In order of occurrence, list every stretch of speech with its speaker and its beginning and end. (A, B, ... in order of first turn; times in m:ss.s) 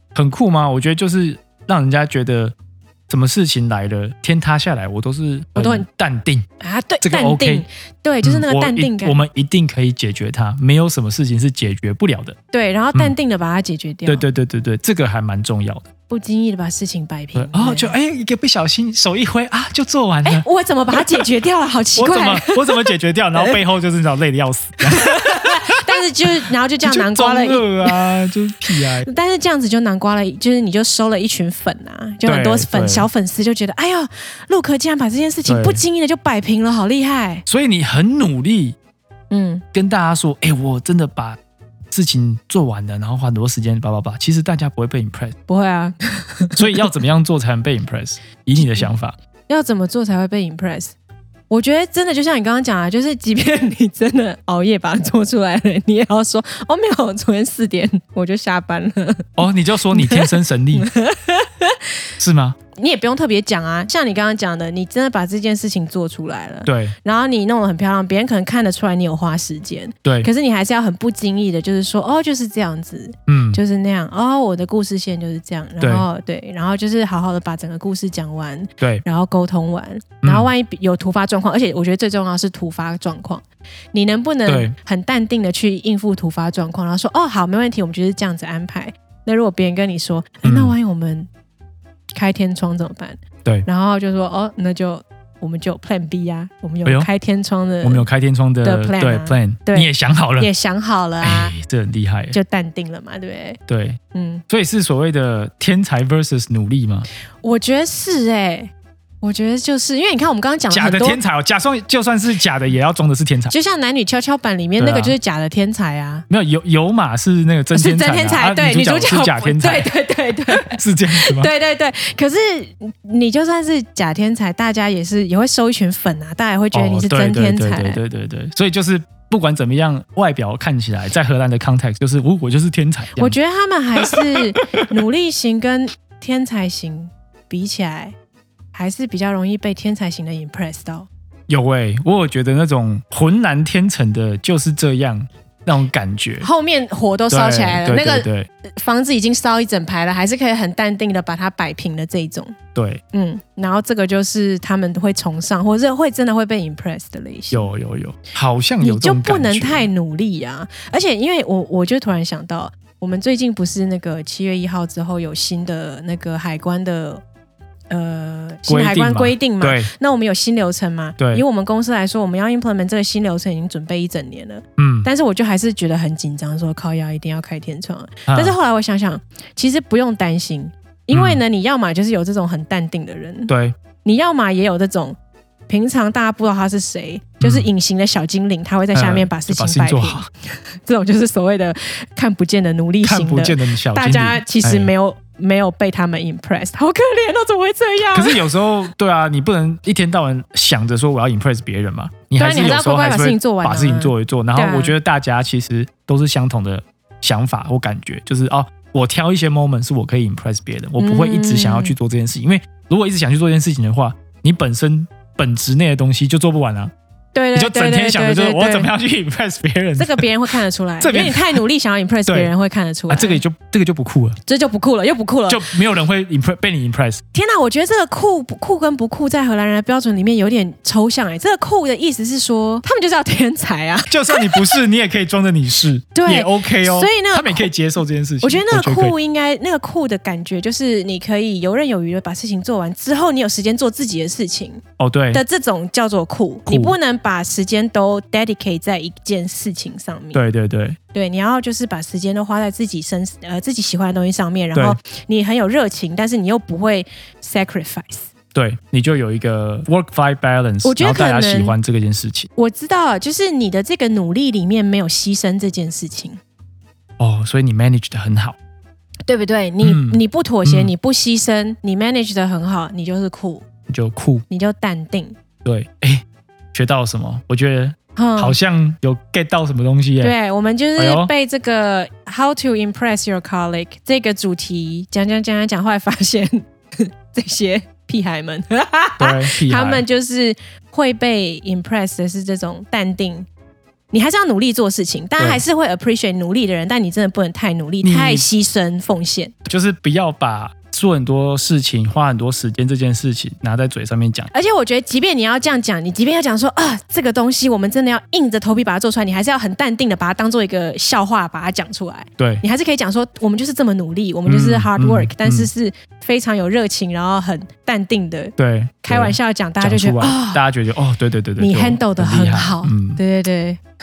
0:00.1-0:02.5 A
0:03.1-0:06.4 A
0:05.6-0:05.9 B
0:06.6-0:09.2 B
0:07.0-0:07.6 A
0:08.2-0:12.4 A
0:12.5-0:14.2 B
0:14.0-0:15.9 A
0:16.1-0:17.9 B
0:17.4-0:21.3 A
0:20.2-0:23.6 B
0:22.0-0:29.1 A
0:24.8-0:28.0 B
0:28.7-0:37.4 B
0:32.2-0:33.1 A
0:35.4-0:35.8 A
0:37.4-0:38.8 A
0:39.3-0:39.6 B
0:39.7-0:41.4 A
0:41.9-0:45.4 A
0:45.5-0:46.8 B
0:46.5-0:49.1 A
0:48.6-0:48.9 B
0:49.5-0:50.9 B
0:51.5-1:02.1 B
0:59.4-1:00.9 A
1:02.2-1:02.6 A
1:02.7-1:31.3 B
1:06.6-1:06.9 A
1:10.0-1:10.3 A
1:13.3-1:13.6 A
1:15.8-1:16.0 A
1:20.2-1:20.5 A
1:24.4-1:24.7 A
1:30.4-1:30.7 A
1:32.1-1:38.0 B
1:37.8-1:40.5 A
1:38.6-1:41.5 B
1:41.2-1:42.4 A
1:42.3-1:43.6 B
1:43.7-1:47.1 A
1:44.1-1:44.4 B
1:47.4-1:48.7 B
1:49.2-1:51.2 B
1:50.7-1:53.5 A
1:53.5-1:56.2 B
1:54.8-1:55.1 A
1:56.3-1:59.9 A
1:57.7-2:08.0 B
2:00.5-2:01.5 A
2:06.7-2:13.4 A
2:13.2-2:18.1 B
2:14.0-2:14.2 A
2:18.7-2:21.1 B
2:21.5-2:26.5 A
2:26.4-2:32.6 B
2:27.3-2:28.5 A
2:32.7-2:33.0 A
2:33.1-2:37.6 B
2:37.5-2:39.9 A
2:38.8-2:47.2 B
2:47.9-3:03.5 B
2:48.7-2:49.9 A
2:51.2-2:51.4 A
2:54.8-2:55.1 A
2:58.3-2:58.6 A
3:01.1-3:01.4 A
3:03.5-3:03.8 A
3:04.0-3:05.2 B
3:05.7-3:18.5 B
3:07.4-3:07.7 A
3:08.9-3:10.2 A
3:13.0-3:14.9 A
3:18.1-3:36.9 A
3:22.4-3:24.9 B
3:31.0-3:31.9 B
3:37.3-3:38.9 B
3:37.5-3:41.6 A
3:40.0-3:43.4 B
3:42.2-3:42.5 A
3:43.1-3:44.4 A
3:44.5-3:45.7 B
3:45.5-3:47.2 A
3:47.3-3:54.8 B
3:54.1-3:59.1 A
3:56.1-3:57.7 B
3:58.4-4:10.4 B
4:05.0-4:05.4 A
4:06.7-4:06.9 A
4:10.3-4:11.0 A
4:11.1-4:18.3 B
4:18.5-4:22.5 A
4:20.8-4:21.8 B
4:22.6-4:26.4 B
4:27.2-4:28.6 A
4:29.2-4:33.6 B
4:29.8-4:30.9 A
4:33.9-4:34.4 A
4:34.5-4:35.4 B
4:35.6-4:40.3 A
4:38.2-4:38.6 B
4:40.2-4:53.5 B
4:41.0-4:41.3 A
4:49.2-4:50.0 A
4:54.1-4:59.6 B
4:58.0-4:58.4 A
4:59.7-5:04.5 A
5:04.5-5:20.6 B
5:12.4-5:12.6 A
5:14.4-5:15.7 A
5:18.6-5:23.2 A
5:21.6-5:23.8 B